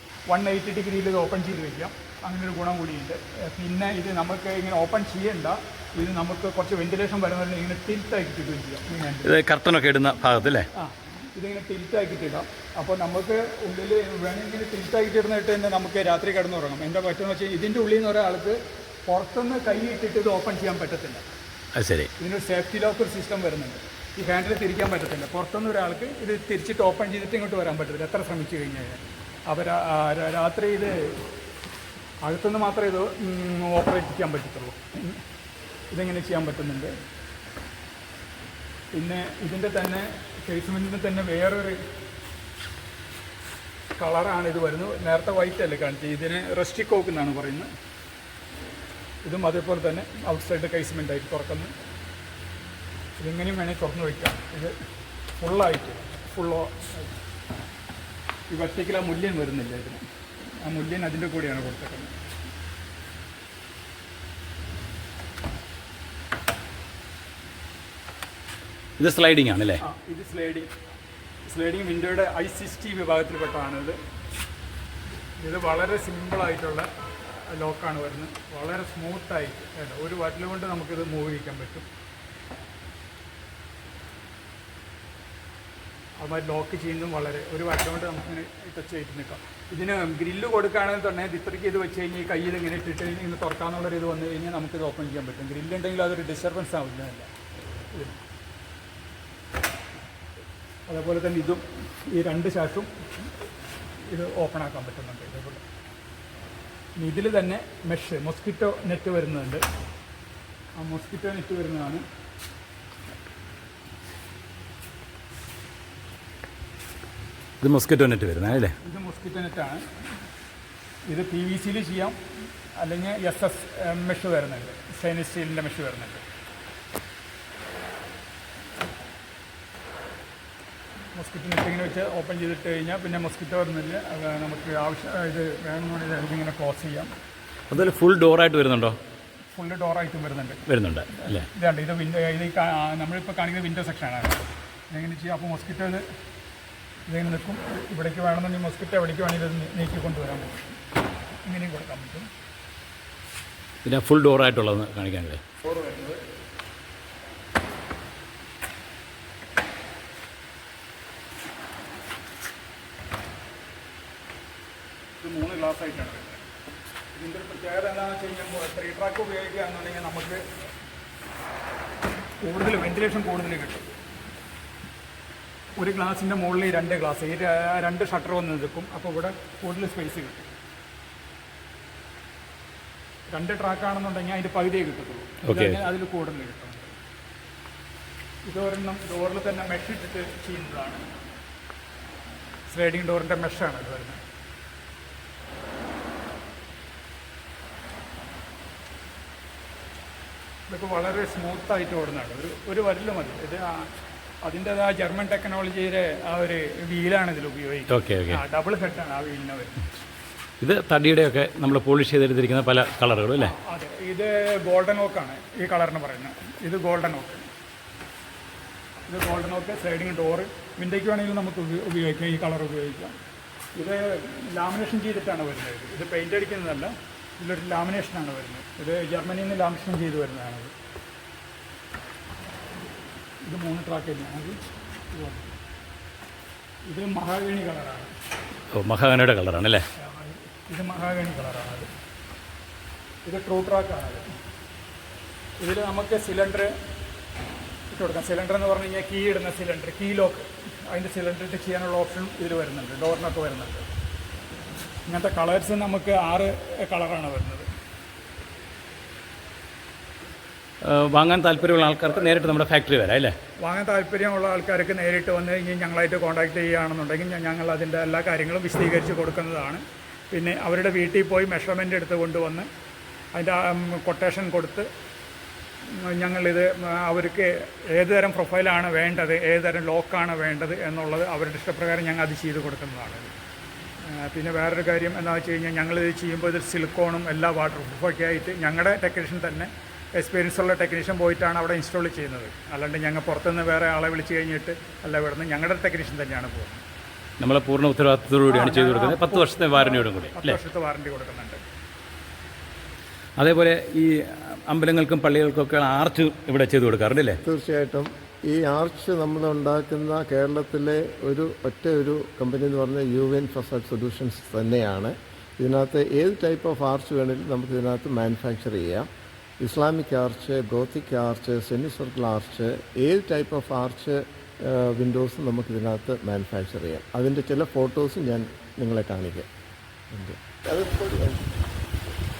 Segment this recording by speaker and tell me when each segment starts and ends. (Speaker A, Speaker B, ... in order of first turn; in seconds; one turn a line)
Speaker A: 0.3-9.3
Speaker B: 9.2-10.7
Speaker A: 10.8-21.3
Speaker B: 21.8-22.1
Speaker A: 22.2-31.2
Speaker A: 32.2-35.2
Speaker A: 35.9-36.9
Speaker A: 38.9-41.8
Speaker A: 44.0-47.7
Speaker A: 49.2-51.7
Speaker A: 53.2-54.8
Speaker A: 55.4-57.1
Speaker A: 58.5-60.0
Speaker A: 60.6-62.1
Speaker B: 69.0-69.8
Speaker A: 69.8-70.7
Speaker A: 71.5-74.0
Speaker A: 75.4-81.9
Speaker A: 86.2-97.3
Speaker A: 97.9-98.2
Speaker A: 100.9-103.2
Speaker A: 104.1-105.6
Speaker A: 107.0-109.6
Speaker A: 110.8-112.0
Speaker B: 117.6-118.7
Speaker A: 118.8-119.8
Speaker A: 121.1-122.2
Speaker A: 122.8-126.2
Speaker A: 131.1-137.1
Speaker B: 137.7-139.0
Speaker A: 139.5-146.0
Speaker B: 140.7-141.5
Speaker A: 147.1-150.7
Speaker A: 151.4-152.3
Speaker B: 153.8-155.4
Speaker A: 155.6-156.2
Speaker A: 165.2-166.4
Speaker A: 167.1-170.4
Speaker A: 172.4-173.9
Speaker A: 175.8-180.5
Speaker A: 183.3-186.9
Speaker B: 185.4-185.8
Speaker A: 188.5-191.0
Speaker A: 192.7-194.2
Speaker A: 200.7-203.9
Speaker A: 204.4-209.8
Speaker B: 207.9-208.4
Speaker B: 210.6-213.5
Speaker A: 213.4-217.4
Speaker A: 219.1-223.1
Speaker A: 223.8-230.7
Speaker A: 233.4-234.6
Speaker A: 235.1-235.5
Speaker A: 236.9-238.1
Speaker B: 238.7-239.8
Speaker A: 240.0-241.9
Speaker A: 243.2-244.2
Speaker A: 245.6-246.7
Speaker A: 247.9-253.8
Speaker A: 255.1-257.7
Speaker B: 260.8-263.3
Speaker A: 263.6-272.7
Speaker A: 273.3-274.9
Speaker A: 275.9-283.3
Speaker A: 284.0-296.8
Speaker B: 297.4-300.6
Speaker A: 298.5-301.6
Speaker B: 303.4-307.4
Speaker C: 307.4-319.1
Speaker C: 319.6-329.5
Speaker C: 330.1-331.4